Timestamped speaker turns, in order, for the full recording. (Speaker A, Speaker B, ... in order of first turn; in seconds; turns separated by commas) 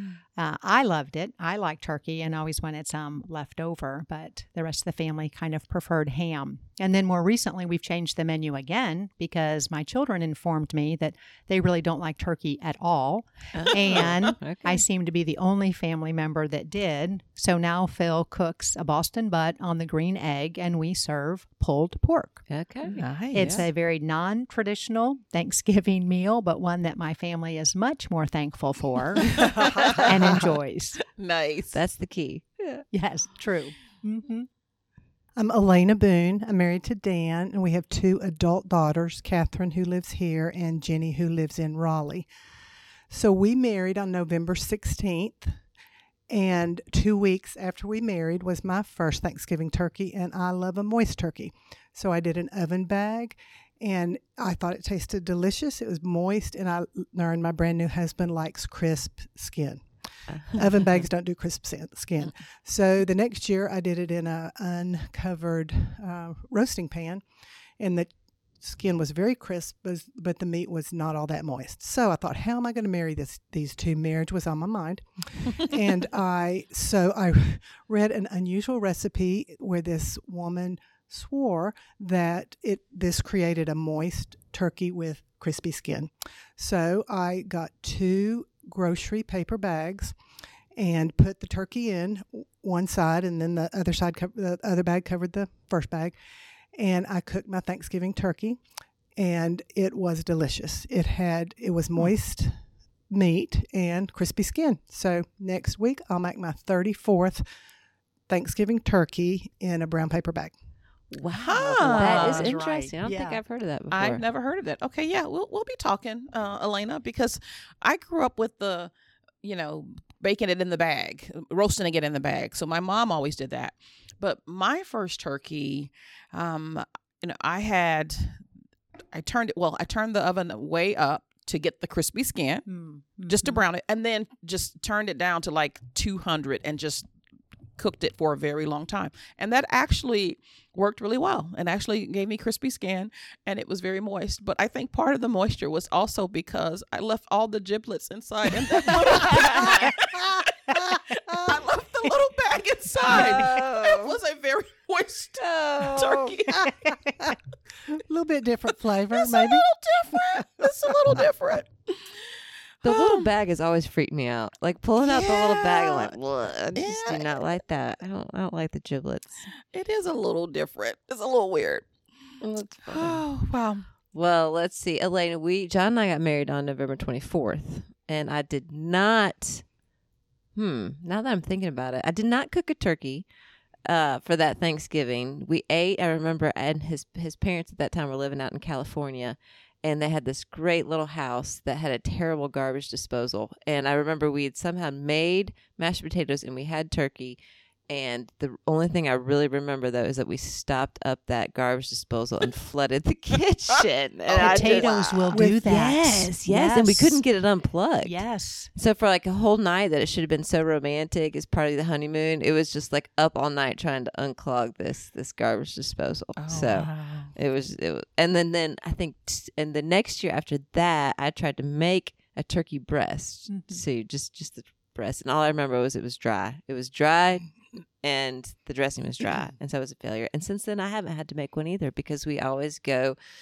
Speaker A: 0.4-22.4, Speaker B: 13.5-14.8, Speaker B: 22.5-23.7, Speaker C: 22.8-23.5, Speaker A: 23.3-31.0, Speaker C: 29.3-30.4, Speaker D: 31.1-31.8, Speaker B: 31.7-32.8, Speaker A: 32.9-34.5, Speaker C: 35.4-42.3, Speaker C: 43.1-45.5, Speaker C: 46.3-67.2, Speaker C: 67.8-90.1, Speaker C: 90.8-96.2, Speaker C: 96.8-98.6, Speaker C: 99.2-102.5, Speaker C: 103.1-107.4, Speaker C: 108.3-110.5, Speaker B: 111.1-114.2, Speaker D: 111.3-112.5, Speaker A: 111.6-113.4, Speaker C: 111.9-112.6, Speaker D: 113.9-118.9, Speaker D: 119.4-128.4, Speaker D: 129.1-132.7, Speaker A: 132.7-133.5, Speaker D: 133.2-137.1, Speaker D: 137.8-156.7, Speaker B: 149.1-149.6, Speaker B: 153.0-154.2, Speaker B: 155.3-156.4, Speaker A: 156.6-157.1, Speaker C: 157.9-160.7, Speaker D: 159.1-163.3, Speaker B: 162.8-169.5, Speaker D: 165.0-166.1, Speaker D: 166.8-167.4, Speaker D: 169.7-171.9, Speaker B: 172.4-173.2, Speaker D: 172.9-173.8, Speaker B: 174.1-179.6, Speaker B: 180.6-183.3, Speaker B: 183.8-197.4, Speaker B: 197.9-208.2, Speaker D: 204.3-204.9, Speaker A: 204.3-207.2, Speaker C: 205.3-205.6, Speaker A: 208.0-208.7, Speaker B: 208.7-227.5, Speaker D: 216.4-217.3, Speaker A: 223.5-223.8, Speaker B: 228.0-233.2